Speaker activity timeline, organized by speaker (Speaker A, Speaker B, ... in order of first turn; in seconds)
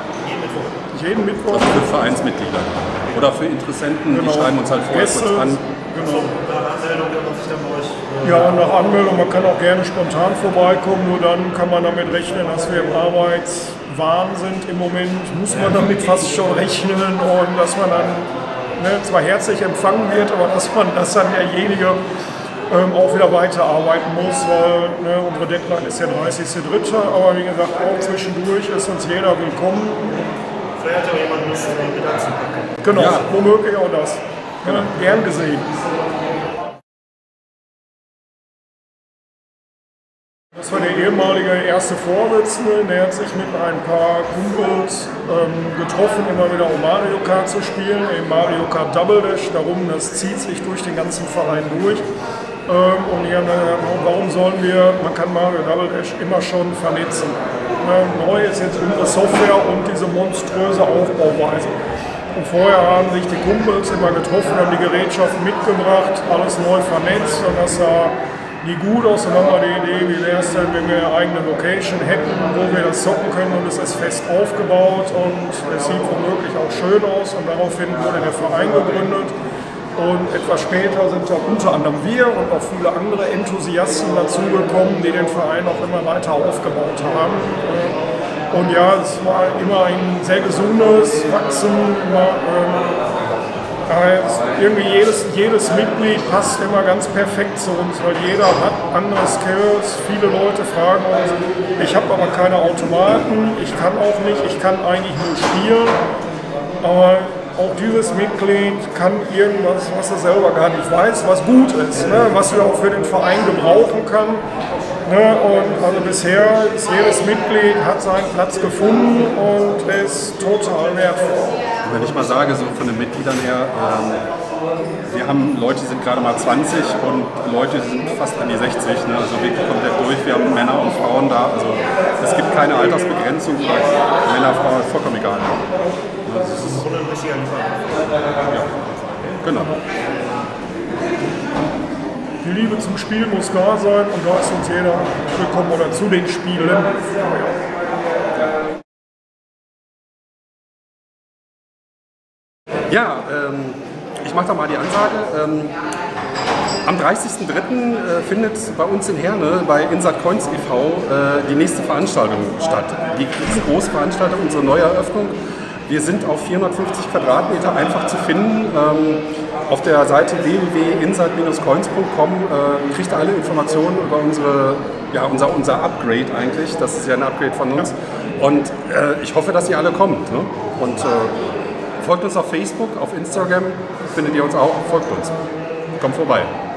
Speaker A: 0.3-0.7, 6.4-8.2, 30.8-32.8, 136.9-137.8
Speaker B: 0.8-2.1, 4.1-6.5, 8.2-22.0, 22.7-30.2, 32.8-35.7, 40.5-52.1, 52.7-61.7, 62.3-79.3, 80.0-88.0, 88.5-92.9, 93.9-106.0, 106.8-114.5, 115.0-121.4, 142.4-147.1
Speaker C: 1.5-5.6, 32.9-33.3, 121.8-124.3, 125.1-135.7, 136.2-137.0, 138.4-139.8, 152.9-155.8, 156.8-181.4, 182.0-185.4, 186.0-186.5